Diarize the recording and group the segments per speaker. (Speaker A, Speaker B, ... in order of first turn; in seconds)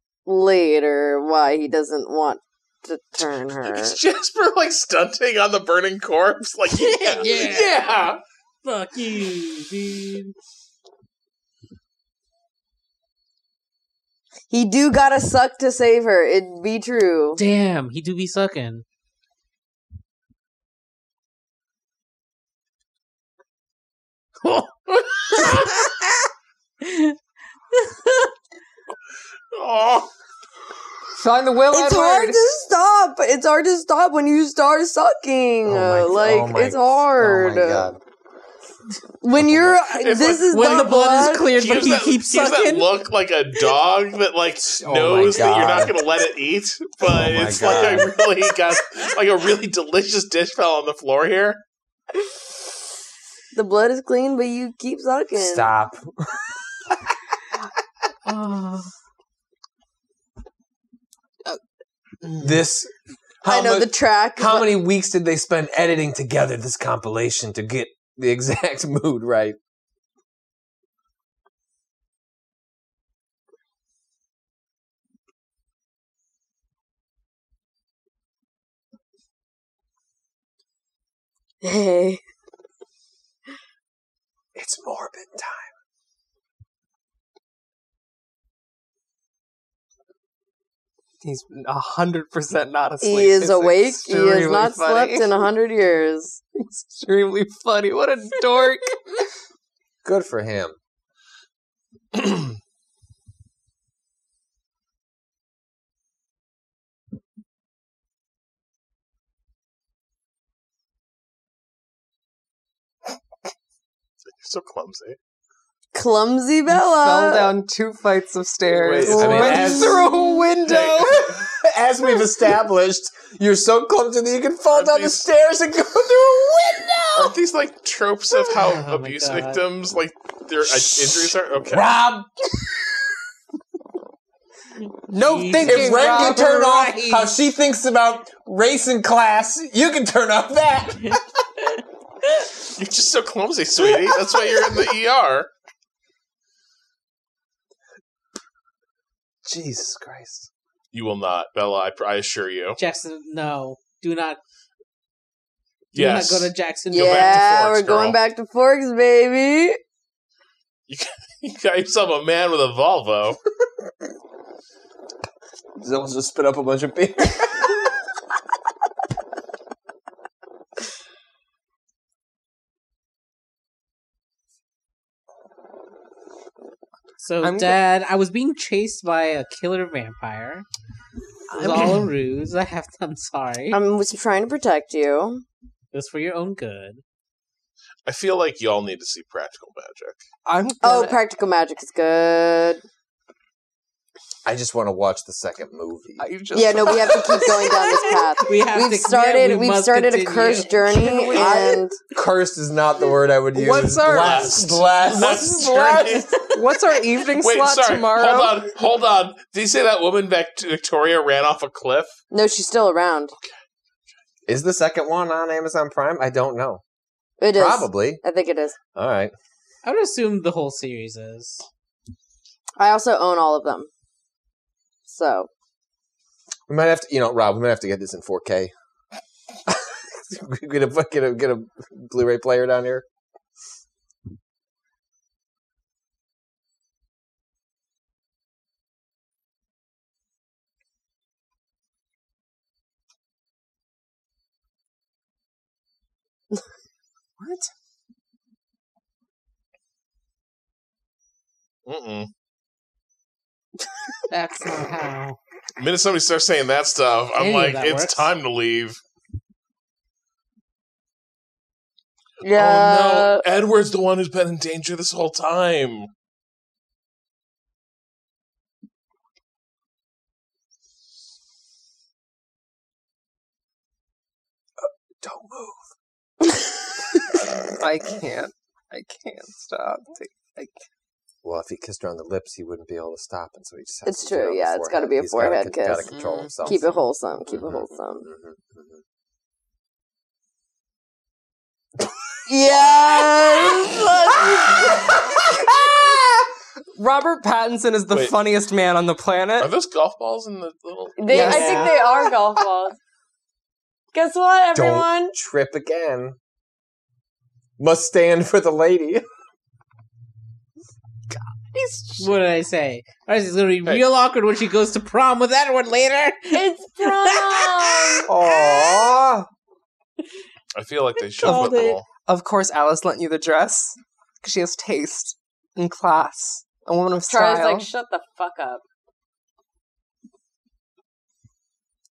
Speaker A: 0.3-4.0, 14.5-17.4, 31.7-37.9, 39.2-41.5, 53.5-55.7, 63.5-64.7, 81.6-82.2, 93.0-96.4, 115.9-117.6, 156.9-159.8, 183.7-185.4, 190.8-192.8, 196.5-202.0, 205.4-206.7, 212.3-213.3, 217.4-218.8, 222.8-223.9, 225.1-225.5, 262.4-263.4, 284.1-286.1, 286.6-288.3, 292.5-295.6, 301.2-303.0, 304.1-305.3, 316.5-319.1, 321.4-321.8, 327.3-328.8
Speaker B: 3.6-8.2, 29.5-30.1, 39.9-40.9, 41.5-51.6, 114.3-115.2, 118.7-120.0, 120.7-121.0, 124.7-125.3, 127.2-131.9, 142.7-145.5, 150.9-152.8, 155.9-158.2, 160.9-163.4, 188.1-190.2, 204.0-206.5, 207.4-212.2, 251.9-252.3, 255.8-259.0, 262.4-266.1, 299.6-301.6, 320.7-322.1
Speaker C: 6.7-7.9, 8.6-10.3, 17.4-18.9, 24.4-25.7, 40.5-42.9, 58.3-58.9, 128.5-129.6, 135.2-136.2, 152.8-154.4, 155.9-157.4, 177.2-180.7, 181.5-183.8, 185.9-187.0, 198.4-201.4, 219.8-221.7, 254.3-255.4, 257.4-258.3, 286.1-286.5, 301.3-301.9, 312.2-318.1, 321.4-322.0
Speaker D: 31.2-32.4, 91.2-95.5, 96.6-99.2, 116.7-121.4, 135.1-137.3, 177.4-177.8, 190.5-191.2, 196.2-198.2, 200.9-201.8, 203.5-204.7, 206.5-208.7, 247.4-247.7, 277.8-280.8, 297.0-299.7, 301.3-301.9, 311.6-312.3, 321.4-327.9
Speaker E: 35.6-38.0, 39.3-39.8, 44.6-46.0, 47.0-48.3, 55.3-57.0, 62.4-62.9, 63.4-69.6, 84.5-85.7, 100.0-100.8, 119.1-120.1, 121.1-127.4, 130.6-132.3, 135.6-141.2, 149.4-150.5, 165.8-167.9, 194.4-196.3, 202.1-205.8, 214.5-216.8, 217.5-218.2, 218.9-219.3, 226.7-228.7, 229.7-233.1, 274.8-275.9, 281.4-286.9, 287.5-289.0, 292.8-293.3, 294.4-296.4, 304.7-306.4, 307.8-309.2, 318.3-319.5